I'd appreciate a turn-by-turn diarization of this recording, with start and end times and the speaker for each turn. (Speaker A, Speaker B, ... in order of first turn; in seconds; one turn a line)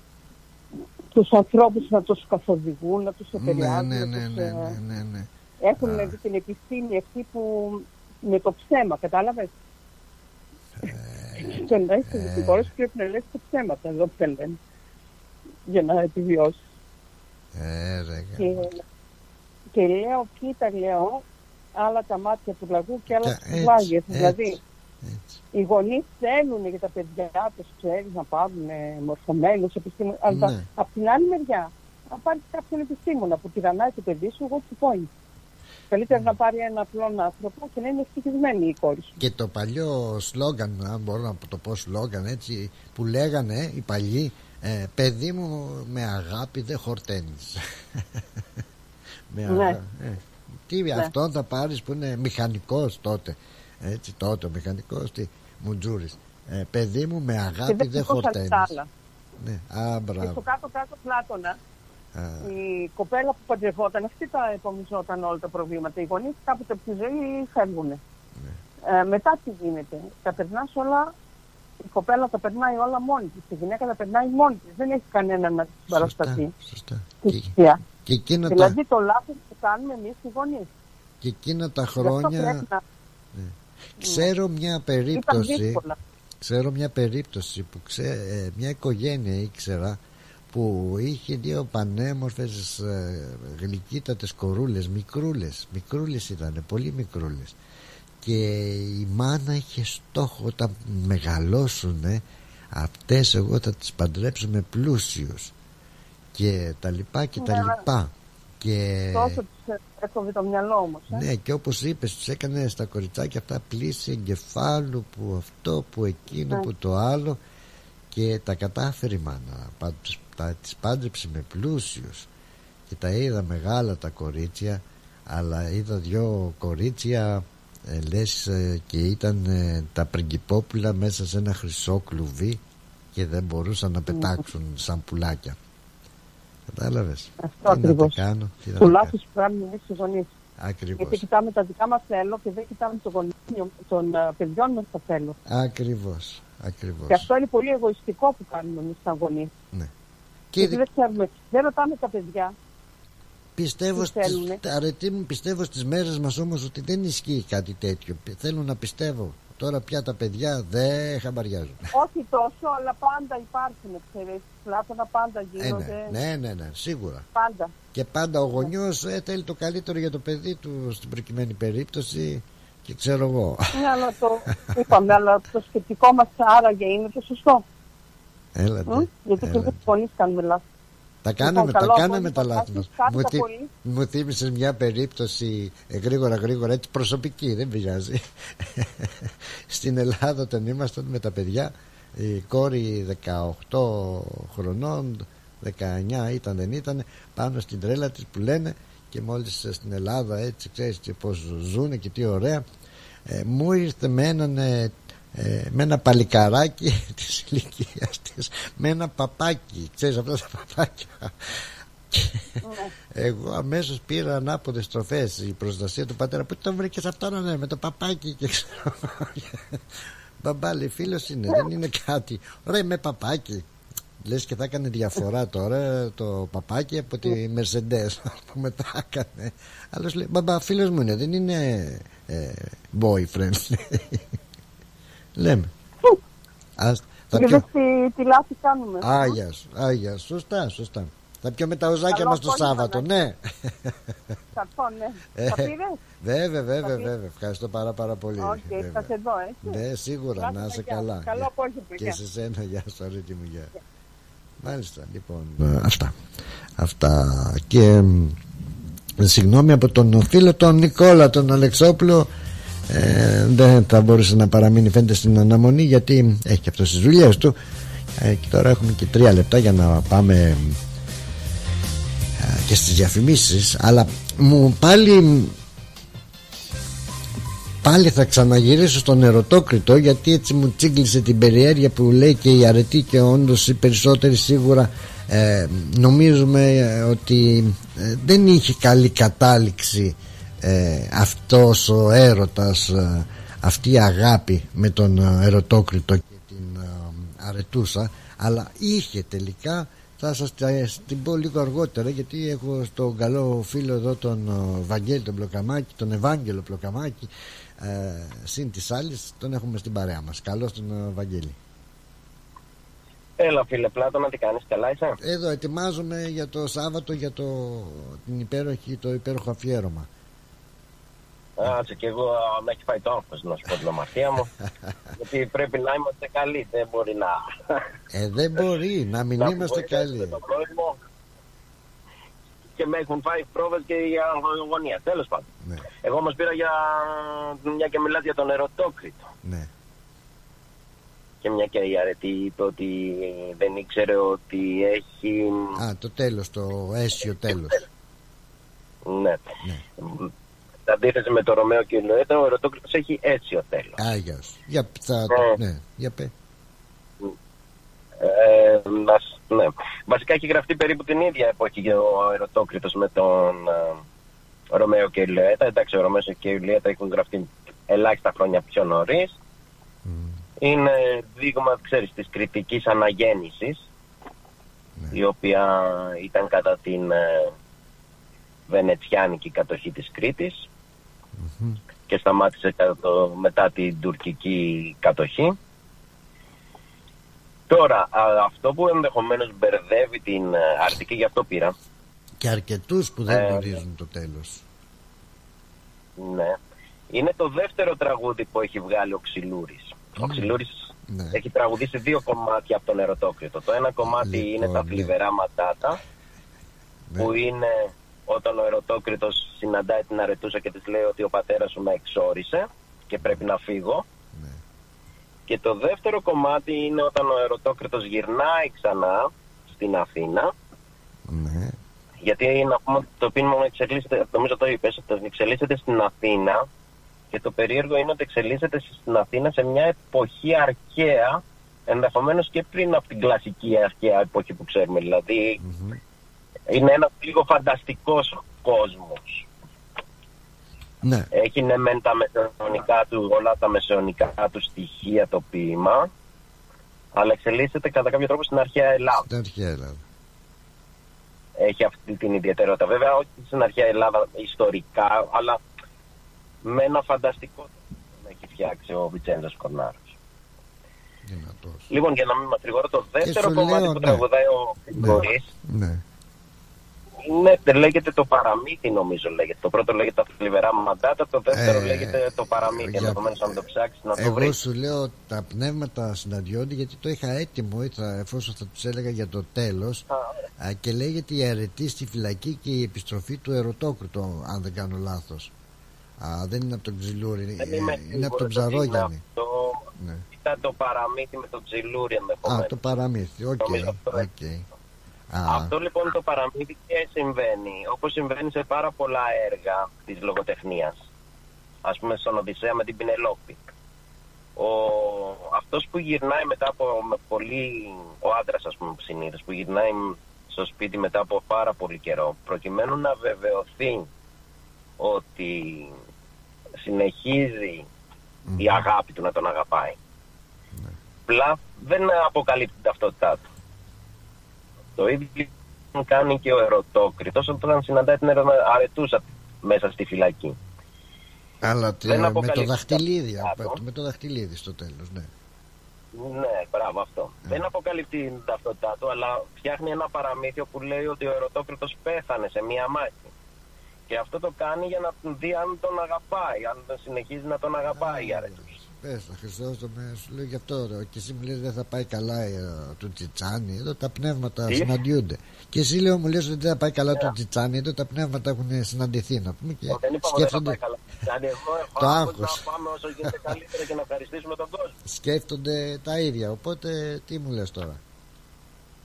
Speaker A: 1.1-4.7
Speaker B: 3.4-6.2
Speaker A: 5.6-9.5
Speaker B: 10.8-12.7
Speaker A: 11.4-14.6
Speaker A: 15.7-16.6
Speaker B: 17.6-18.6
Speaker A: 18.4-18.8
Speaker A: 19.7-21.2
Speaker A: 21.8-24.6
Speaker B: 23.1-25.4
Speaker A: 25.5-35.1
Speaker B: 30.3-30.7
Speaker A: 35.9-39.2
Speaker B: 36.1-36.4
Speaker B: 39.2-47.6
Speaker B: 49.3-58.8
Speaker A: 49.5-49.8
Speaker A: 57.7-58.9
Speaker B: 59.4-60.5
Speaker A: 60.2-61.6
Speaker B: 62.1-62.5
Speaker A: 62.5-68.0
Speaker A: 68.9-71.1
Speaker A: 71.8-76.5
Speaker B: 75.9-78.8
Speaker A: 77.2-77.8
Speaker A: 78.5-80.7
Speaker B: 81.2-82.7
Speaker A: 82.0-82.8
Speaker B: 83.3-85.8
Speaker A: 84.0-84.3
Speaker A: 85.2-86.0
Speaker B: 86.4-90.0
Speaker B: 90.5-97.6
Speaker B: 98.2-105.5
Speaker B: 106.3-109.4
Speaker A: 107.4-107.8
Speaker A: 109.1-111.3
Speaker B: 111.1-117.4
Speaker B: 118.1-122.3
Speaker B: 122.9-132.6
Speaker B: 133.2-135.6
Speaker B: 136.7-139.1
Speaker A: 137.4-138.2
Speaker A: 138.8-140.3
Speaker B: 140.6-141.2
Speaker A: 141.0-145.4
Speaker B: 145.5-147.3
Speaker A: 147.1-149.5
Speaker B: 150.5-150.8
Speaker A: 150.6-152.6
Speaker B: 153.6-161.9
Speaker A: 154.0-154.6
Speaker A: 161.9-166.1
Speaker B: 165.6-167.3
Speaker A: 167.3-167.7
Speaker B: 167.9-173.9
Speaker A: 173.8-177.6
Speaker B: 174.6-175.0
Speaker B: 178.6-179.9
Speaker A: 178.9-180.6
Speaker B: 181.2-202.6
Speaker A: 181.4-183.7
Speaker B: 203.3-211.6
Speaker B: 212.1-212.5
Speaker A: 212.6-212.9
Speaker B: 213.1-219.8
Speaker B: 220.4-223.6
Speaker B: 224.2-234.2
Speaker B: 235.4-235.7
Speaker B: 236.8-237.7
Speaker A: 237.3-239.4
Speaker B: 239.0-244.0
Speaker A: 242.1-243.1
Speaker A: 244.5-246.0
Speaker B: 245.4-253.7
Speaker A: 246.8-247.1
Speaker A: 248.4-249.8
Speaker A: 250.4-252.2
Speaker B: 254.6-256.2
Speaker B: 256.8-258.4
Speaker B: 259.2-262.3
Speaker B: 262.9-267.6
Speaker B: 268.2-270.8
Speaker B: 272.4-275.6
Speaker B: 277.8-307.3
Speaker B: 307.8-311.6
Speaker C: 313.4-315.2
Speaker B: 315.2-320.1
Speaker C: 321.6-324.5
Speaker C: 325.2-327.9
Speaker B: 328.1-330.4
Speaker C: 329.4-331.0
Speaker C: 332.8-335.5
Speaker C: 336.0-339.2
Speaker B: 339.4-339.7
Speaker C: 341.4-345.8
Speaker B: 345.8-347.8
Speaker C: 349.1-349.4
Speaker C: 350.0-350.3
Speaker C: 350.9-354.0
Speaker B: 354.0-356.3
Speaker C: 358.2-364.0
Speaker C: 364.7-369.4
Speaker B: 370.1-370.4
Speaker C: 370.6-373.9
Speaker C: 375.1-377.5
Speaker C: 378.7-380.6
Speaker B: 381.4-381.8
Speaker C: 382.1-385.6
Speaker C: 387.7-391.7
Speaker B: 392.4-394.6
Speaker C: 393.3-393.8
Speaker C: 396.2-396.6
Speaker C: 397.1-406.0
Speaker B: 400.2-400.5
Speaker B: 401.1-401.4
Speaker B: 404.1-405.1
Speaker C: 407.2-414.0
Speaker B: 414.3-414.6
Speaker C: 415.5-420.5
Speaker B: 421.3-421.8
Speaker C: 422.2-426.7
Speaker C: 427.3-435.6
Speaker B: 435.6-436.0
Speaker C: 436.7-439.4
Speaker B: 441.0-441.3
Speaker C: 441.3-446.1
Speaker C: 447.1-449.2
Speaker B: 449.2-450.0
Speaker C: 451.6-455.6
Speaker C: 456.6-460.1
Speaker B: 461.2-461.9
Speaker C: 461.9-465.5
Speaker B: 463.2-464.2
Speaker B: 465.0-466.0
Speaker C: 467.2-474.6
Speaker B: 471.5-473.6
Speaker B: 474.2-480.1
Speaker B: 480.6-485.5
Speaker B: 486.2-489.2
Speaker C: 487.6-489.8
Speaker B: 490.0-490.2
Speaker C: 490.3-492.8
Speaker B: 492.5-494.7
Speaker C: 493.6-494.3
Speaker B: 495.3-495.7
Speaker C: 495.5-501.0
Speaker C: 501.8-503.6
Speaker C: 504.6-514.1
Speaker C: 515.0-515.9
Speaker C: 516.8-517.9
Speaker B: 518.5-518.8
Speaker C: 518.6-520.0
Speaker C: 521.3-523.4
Speaker C: 525.0-530.6
Speaker B: 531.6-535.3
Speaker C: 532.0-533.8
Speaker C: 536.1-543.3
Speaker C: 544.1-548.8
Speaker B: 547.9-560.8
Speaker C: 554.7-554.9
Speaker C: 559.9-565.0
Speaker B: 562.0-562.6
Speaker B: 565.1-568.0